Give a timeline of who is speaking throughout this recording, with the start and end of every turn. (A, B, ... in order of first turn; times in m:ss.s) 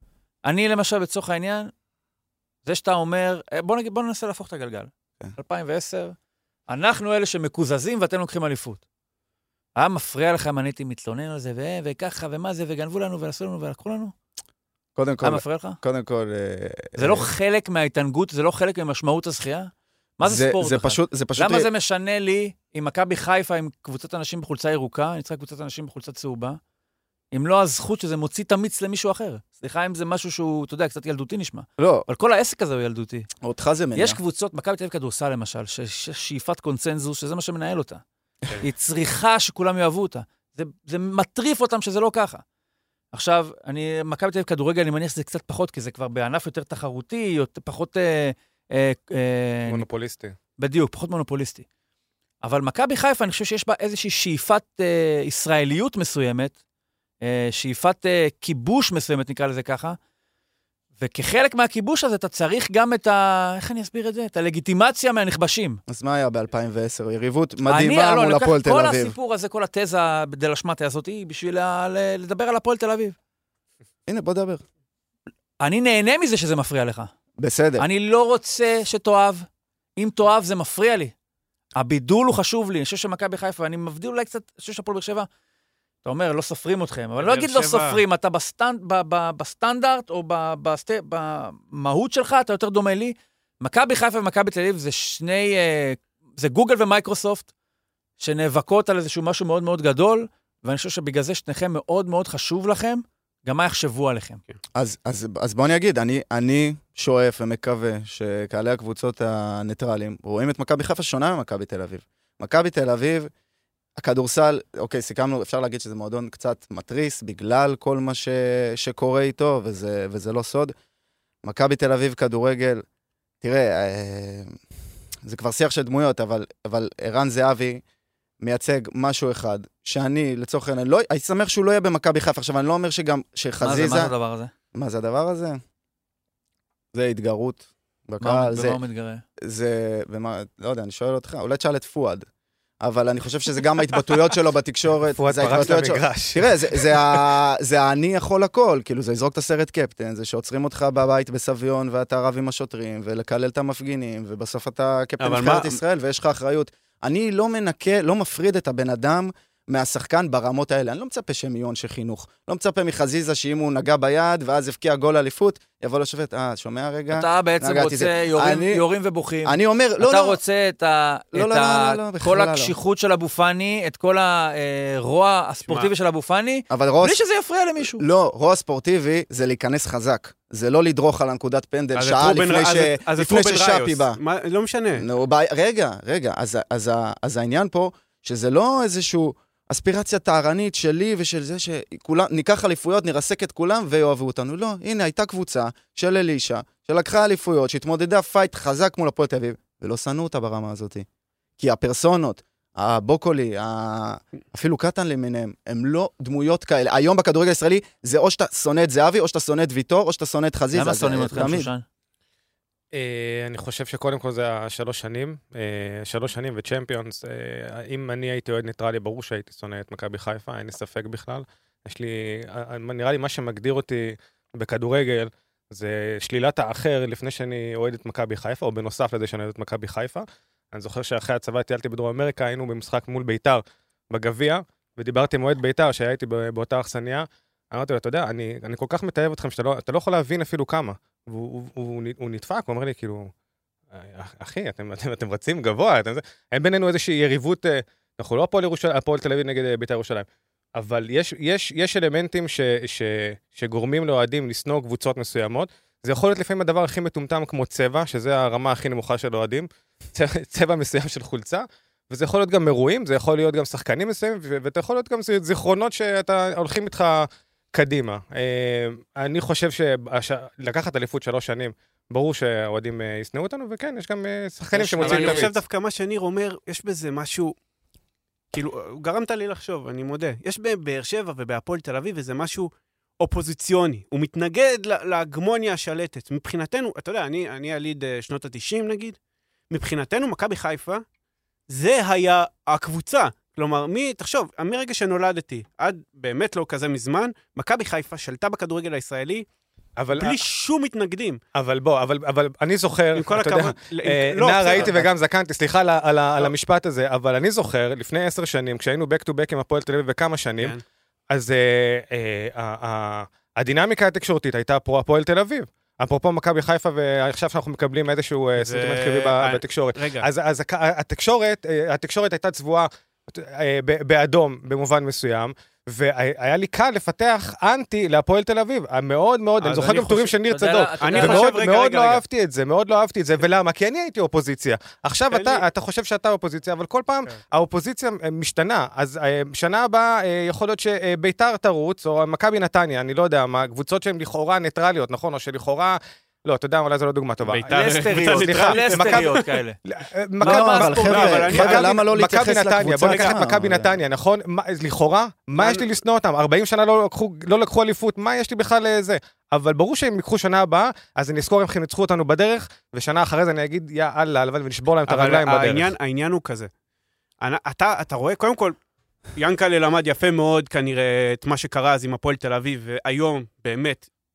0:00.4-0:01.7 A
0:02.6-0:06.1 A
0:06.7-0:08.8 A
0:09.8-0:14.1 A
0:15.0-0:17.2 B
0:15.2-0:15.8 A
0:17.0-0:26.6 A
0:20.2-0:21.7 B
0:27.3-0:33.3 A
0:31.8-0:32.1 B
0:33.4-0:34.2 B
0:33.9-0:38.0 A
0:38.6-0:42.4 A
0:43.1-0:49.8 A
0:49.7-0:50.3 C
0:50.6-0:51.6 A
0:52.4-0:56.6 A
0:57.2-1:00.0 A
1:01.0-1:05.8 A
1:05.9-1:09.1 B
1:07.7-1:13.1 A
1:14.1-1:14.6 B
1:15.6-1:17.1 A
1:17.4-1:17.8 B
1:17.8-1:19.4 A
1:20.0-1:21.1 A
1:21.8-1:25.3 A
1:26.0-1:37.5 A
1:27.2-1:28.0 D
1:38.2-1:44.4 A
1:44.7-1:53.3 B
1:54.0-2:00.7 B
2:01.4-2:02.8 B
2:03.4-2:04.6 B
2:05.2-2:07.8 B
2:08.4-2:14.1 B
2:13.6-2:14.5 A
2:14.7-2:15.6 B
2:16.9-2:18.8 B
2:18.2-2:19.2 A
2:19.4-2:22.2 B
2:22.8-2:48.8 B
2:25.2-2:27.2 C
2:35.2-2:35.8 D
2:47.1-2:58.0 A
2:49.4-2:50.4 B
2:51.3-2:52.7 B
2:56.7-2:57.2 B
2:57.9-3:04.2 B
3:02.0-3:05.0 D
3:05.0-3:21.0 B
3:21.6-3:31.7 B
3:30.7-3:31.8 A
3:32.9-4:03.3 C
4:03.9-4:35.6 C
4:34.8-4:35.5 A
4:35.0-4:37.5 D
4:38.5-4:49.2 D
4:49.7-4:51.0 D
4:51.7-4:59.4 D
5:00.0-5:00.4 C
5:00.2-5:01.4 D
5:01.5-5:10.8 C
5:03.2-5:05.1 D
5:11.3-6:05.9 C
5:18.6-5:20.2 D
5:29.6-5:30.3 D
5:30.5-5:31.7 A
5:31.0-5:32.2 D
5:35.3-5:35.6 D
5:47.4-5:49.5 D
5:47.7-5:49.8 A
5:50.4-5:54.0 B
5:50.4-5:51.2 A
5:50.8-5:51.9 D
5:53.0-5:53.4 D
5:55.6-5:55.8 D
6:05.1-6:06.7 D
6:07.4-6:08.8 D
6:09.3-6:14.0 D